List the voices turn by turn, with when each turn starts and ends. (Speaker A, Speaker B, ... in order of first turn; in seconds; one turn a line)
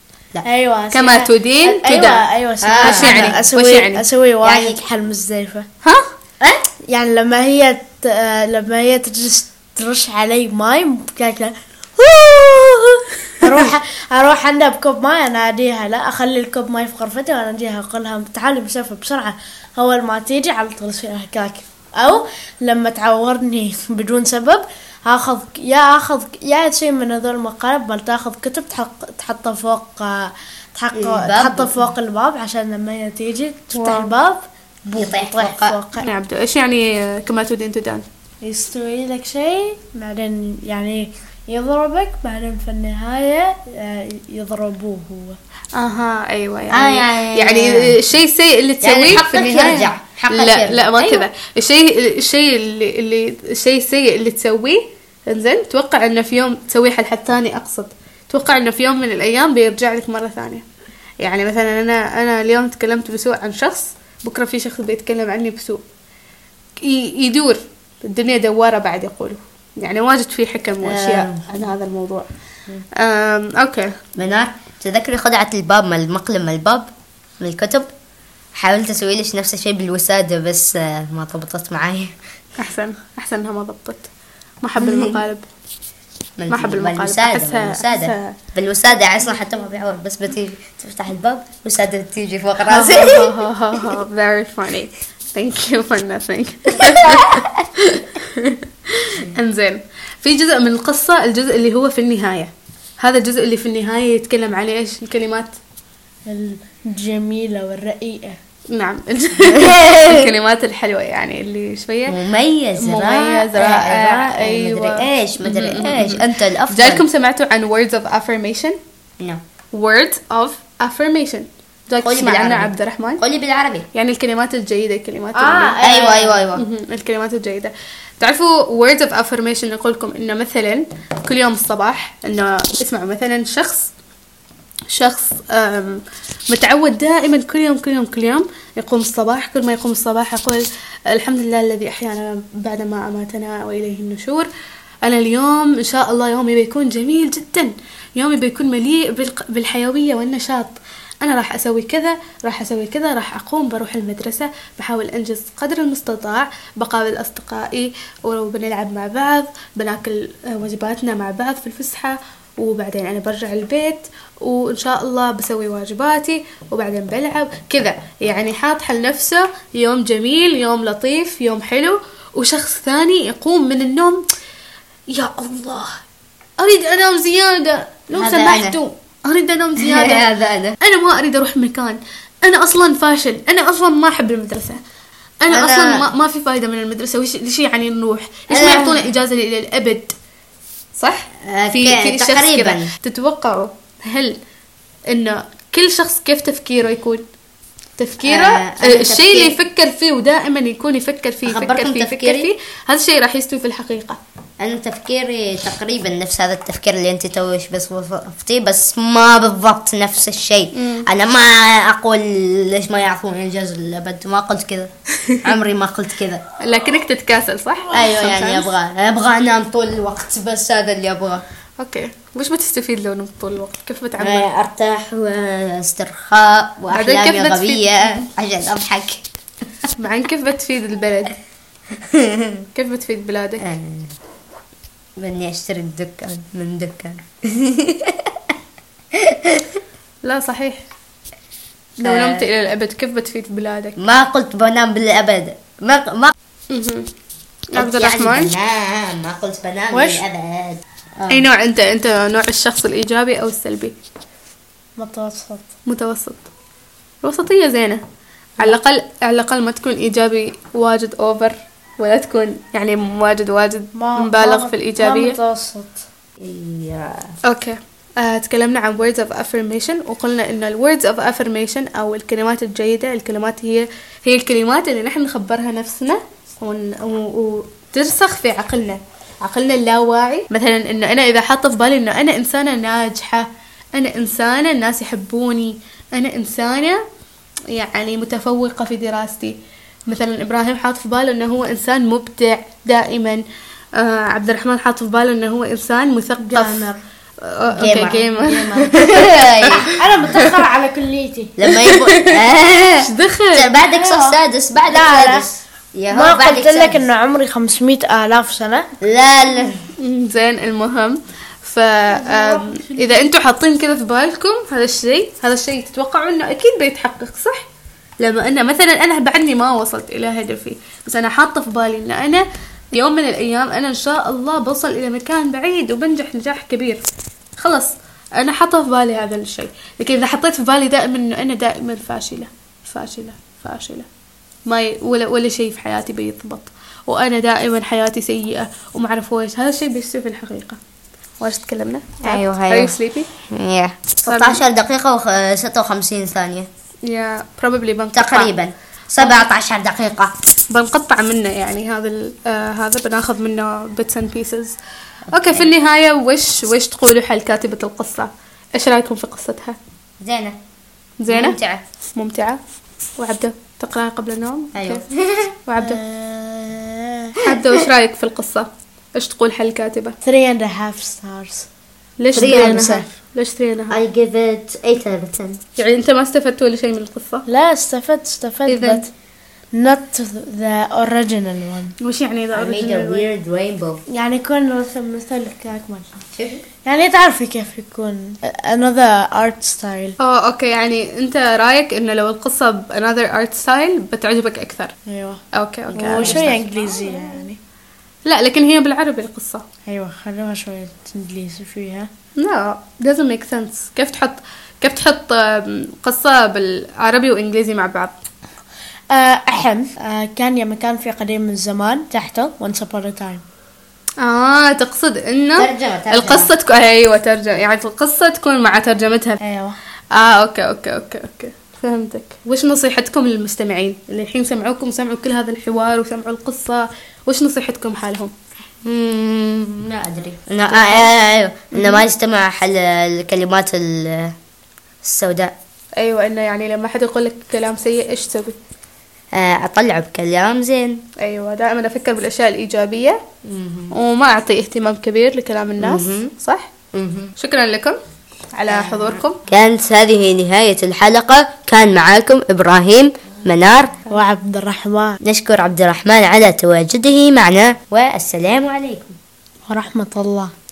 Speaker A: 0.4-5.7
Speaker B: 0.9-2.2
Speaker C: 2.6-3.4
Speaker B: 2.8-4.0
Speaker C: 4.4-4.8
Speaker A: 6.9-12.8
Speaker A: 13.4-36.1
Speaker C: 30.9-31.8
Speaker B: 33.7-34.1
Speaker C: 34.9-35.8
Speaker B: 36.0-38.0
Speaker A: 38.4-45.4
Speaker B: 45.7-60.6
Speaker C: 46.7-48.0
Speaker C: 48.8-51.0
Speaker A: 51.0-51.2
Speaker B: 61.2-65.8
Speaker B: 66.8-72.3
Speaker C: 70.8-71.4
Speaker B: 73.0-73.9
Speaker C: 74.2-77.9
Speaker C: 78.5-82.1
Speaker B: 82.6-84.1
Speaker B: 84.6-85.5
Speaker C: 84.8-85.2
Speaker C: 86.4-93.3
Speaker B: 86.5-88.4
Speaker B: 92.7-105.5
Speaker A: 106.3-108.3
Speaker B: 108.7-112.2
Speaker C: 109.5-110.2
Speaker C: 112.1-117.0
Speaker B: 112.8-118.8
Speaker B: 119.7-123.2
Speaker C: 122.0-123.9
Speaker B: 123.9-125.7
Speaker A: 125.3-126.5
Speaker C: 125.8-126.6
Speaker B: 126.5-133.9
Speaker B: 134.9-144.5
Speaker B: 145.0-174.2
Speaker B: 175.1-176.0
Speaker B: 176.6-180.3
Speaker C: 178.1-178.8
Speaker C: 179.8-180.8
Speaker B: 180.8-184.8
Speaker B: 185.4-190.1
Speaker C: 185.5-186.1
Speaker C: 188.5-189.1
Speaker B: 190.9-194.4
Speaker C: 191.4-192.9
Speaker B: 195.1-197.2
Speaker B: 198.0-204.2
Speaker C: 198.2-199.6
Speaker C: 201.5-202.5
Speaker C: 204.6-216.4
Speaker B: 210.7-211.1
Speaker B: 216.6-218.7
Speaker C: 217.9-221.4
Speaker B: 221.8-224.5
Speaker C: 224.2-229.2
Speaker B: 226.9-227.9
Speaker B: 229.9-231.4
Speaker C: 232.0-232.6
Speaker B: 232.7-233.7
Speaker C: 233.6-234.1
Speaker C: 235.2-238.5
Speaker C: 239.1-239.8
Speaker B: 240.2-240.8
Speaker B: 242.0-244.0
Speaker C: 242.0-242.4
Speaker C: 244.0-246.3
Speaker B: 246.7-247.1
Speaker B: 247.7-248.5
Speaker C: 247.7-251.4
Speaker B: 249.9-250.2
Speaker B: 251.3-253.9
Speaker A: 255.0-255.7
Speaker B: 255.8-256.5
Speaker B: 257.2-258.0
Speaker B: 258.6-265.4
Speaker A: 263.9-266.0
Speaker C: 266.4-267.3
Speaker B: 267.4-287.0
Speaker B: 287.7-289.6
Speaker B: 290.1-293.4
Speaker B: 293.9-296.9
Speaker A: 296.4-297.0
Speaker B: 297.4-299.8
Speaker C: 297.7-299.9
Speaker A: 298.2-299.1
Speaker A: 300.0-301.7
Speaker C: 301.6-307.0
Speaker B: 301.7-302.4
Speaker B: 303.0-303.7
Speaker A: 303.8-305.5
Speaker A: 306.1-308.9
Speaker C: 309.0-309.8
Speaker B: 310.0-317.7
Speaker A: 312.1-313.3
Speaker B: 318.2-327.0
Speaker B: 327.6-334.1
Speaker B: 334.7-340.8
Speaker B: 341.4-343.3
Speaker C: 342.2-342.9
Speaker C: 343.5-346.7
Speaker B: 344.2-344.6
Speaker B: 347.1-348.5
Speaker C: 348.1-350.3
Speaker B: 349.2-349.4
Speaker B: 350.7-354.8
Speaker C: 355.3-355.7
Speaker B: 355.3-359.8
Speaker C: 360.2-360.6
Speaker B: 361.2-361.6
Speaker C: 361.3-361.8
Speaker B: 362.1-362.6
Speaker B: 363.2-365.0
Speaker C: 364.7-365.6
Speaker B: 365.6-366.0
Speaker A: 365.8-367.4
Speaker B: 367.4-370.1
Speaker A: 370.2-371.7
Speaker B: 372.2-374.0
Speaker C: 372.3-372.9
Speaker A: 372.3-373.1
Speaker C: 373.9-375.6
Speaker B: 375.8-377.4
Speaker A: 377.5-379.1
Speaker B: 378.7-379.1
Speaker A: 379.7-381.9
Speaker B: 382.0-383.2
Speaker C: 382.5-384.0
Speaker A: 384.1-386.2
Speaker C: 386.3-386.6
Speaker A: 386.8-390.1
Speaker B: 390.2-394.9
Speaker A: 395.1-395.4
Speaker B: 395.5-397.4
Speaker A: 395.9-397.6
Speaker C: 396.1-396.6
Speaker B: 398.2-399.6
Speaker A: 399.9-402.1
Speaker B: 402.4-408.1
Speaker A: 409.1-413.4
Speaker B: 414.2-419.4
Speaker C: 415.6-416.5
Speaker A: 419.4-419.8
Speaker B: 420.1-428.3
Speaker C: 428.8-434.3
Speaker B: 430.7-431.1
Speaker B: 431.7-432.0
Speaker C: 435.0-435.5
Speaker B: 436.0-438.6
Speaker C: 439.3-441.0
Speaker B: 441.2-443.2
Speaker C: 443.4-443.9
Speaker B: 443.9-446.7
Speaker C: 445.8-446.3
Speaker C: 446.9-447.3
Speaker B: 447.4-448.0
Speaker B: 448.5-449.4
Speaker C: 448.7-454.0
Speaker A: 454.1-455.2
Speaker C: 455.2-459.1
Speaker A: 459.7-460.5